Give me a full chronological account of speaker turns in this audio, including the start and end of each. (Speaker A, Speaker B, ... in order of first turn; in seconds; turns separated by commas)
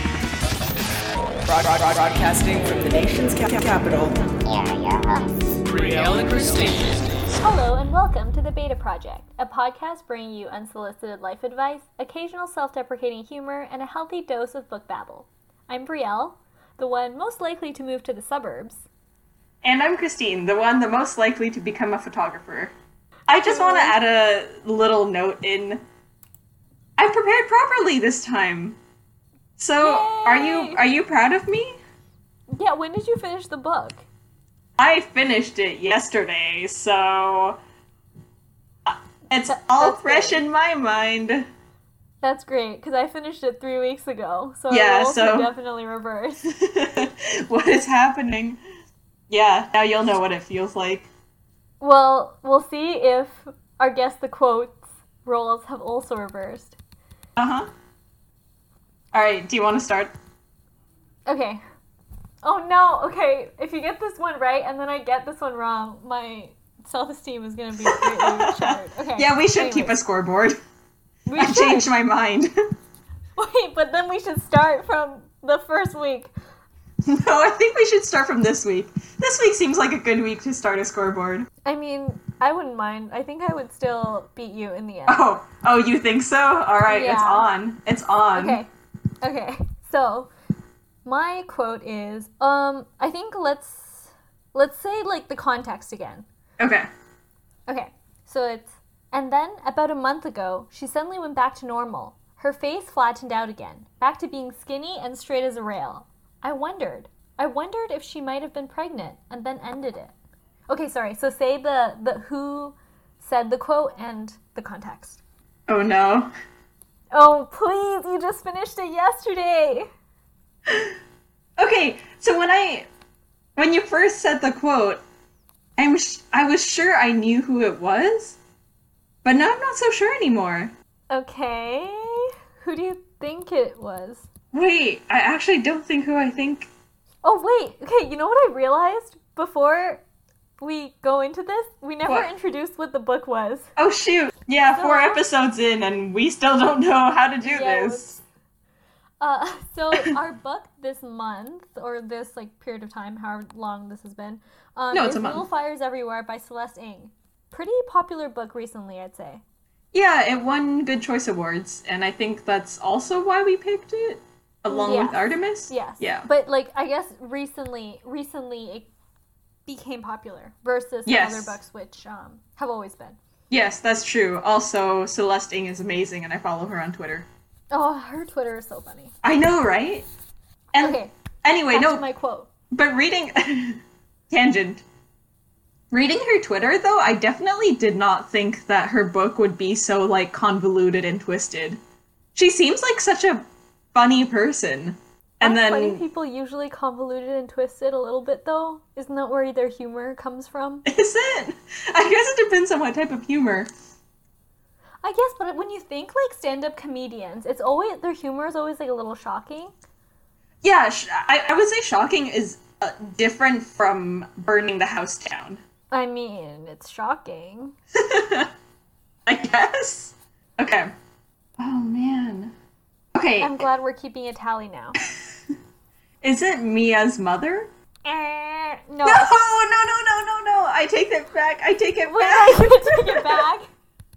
Speaker A: 1.4-4.2, Speaker A: 5.7-7.0, Speaker B: 7.3-18.8, Speaker C: 19.6-22.7, Speaker C: 23.3-25.8, Speaker B: 23.4-24.0, Speaker C: 27.0-28.8, Speaker C: 29.6-31.8, Speaker B: 29.8-30.8, Speaker B: 32.5-34.0, Speaker C: 34.8-37.6, Speaker C: 38.9-41.5, Speaker B: 39.5-40.4, Speaker B: 42.2-46.5, Speaker C: 44.7-45.5, Speaker C: 46.5-48.6, Speaker C: 49.3-51.1, Speaker B: 51.8-56.8, Speaker C: 57.4-57.7, Speaker C: 59.1-60.1, Speaker B: 61.2-61.6, Speaker B: 62.4-70.0, Speaker C: 67.8-70.6, Speaker B: 71.2-71.9, Speaker C: 71.4-72.5, Speaker B: 73.4-76.3, Speaker C: 77.0-81.5, Speaker B: 81.6-85.2, Speaker C: 85.1-88.6, Speaker B: 86.9-87.5, Speaker B: 88.3-88.7, Speaker B: 89.2-90.3, Speaker B: 91.0-96.2, Speaker C: 96.6-96.9, Speaker B: 97.7-110.1, Speaker B: 110.7-115.2, Speaker C: 115.7-116.3, Speaker B: 117.1-119.8, Speaker C: 120.7-121.0, Speaker C: 121.6-122.9, Speaker C: 123.5-125.0, Speaker C: 125.8-128.4, Speaker C: 129.2-130.7, Speaker B: 131.1-134.2, Speaker C: 134.5-136.7, Speaker B: 137.2-140.0, Speaker B: 140.6-143.7, Speaker C: 143.8-148.2, Speaker B: 144.7-145.2, Speaker B: 147.4-148.2, Speaker B: 149.2-159.4, Speaker C: 154.9-155.5, Speaker C: 159.9-166.3, Speaker B: 164.7-168.9, Speaker B: 169.7-173.2, Speaker C: 171.1-171.6, Speaker C: 173.5-177.3, Speaker B: 177.7-179.1, Speaker C: 179.2-180.1, Speaker C: 180.7-182.0, Speaker B: 180.8-181.1, Speaker B: 181.7-182.5, Speaker C: 182.7-184.8, Speaker C: 185.9-191.8, Speaker C: 192.3-196.0, Speaker B: 195.4-200.8, Speaker C: 200.8-203.7, Speaker B: 205.0-209.7, Speaker C: 210.6-215.6, Speaker B: 215.9-217.8, Speaker C: 218.0-218.5, Speaker C: 219.2-220.9, Speaker C: 221.6-222.5, Speaker C: 223.1-223.6, Speaker B: 223.4-225.0, Speaker C: 226.2-227.7, Speaker B: 228.0-229.4, Speaker C: 229.0-233.5, Speaker B: 232.0-233.7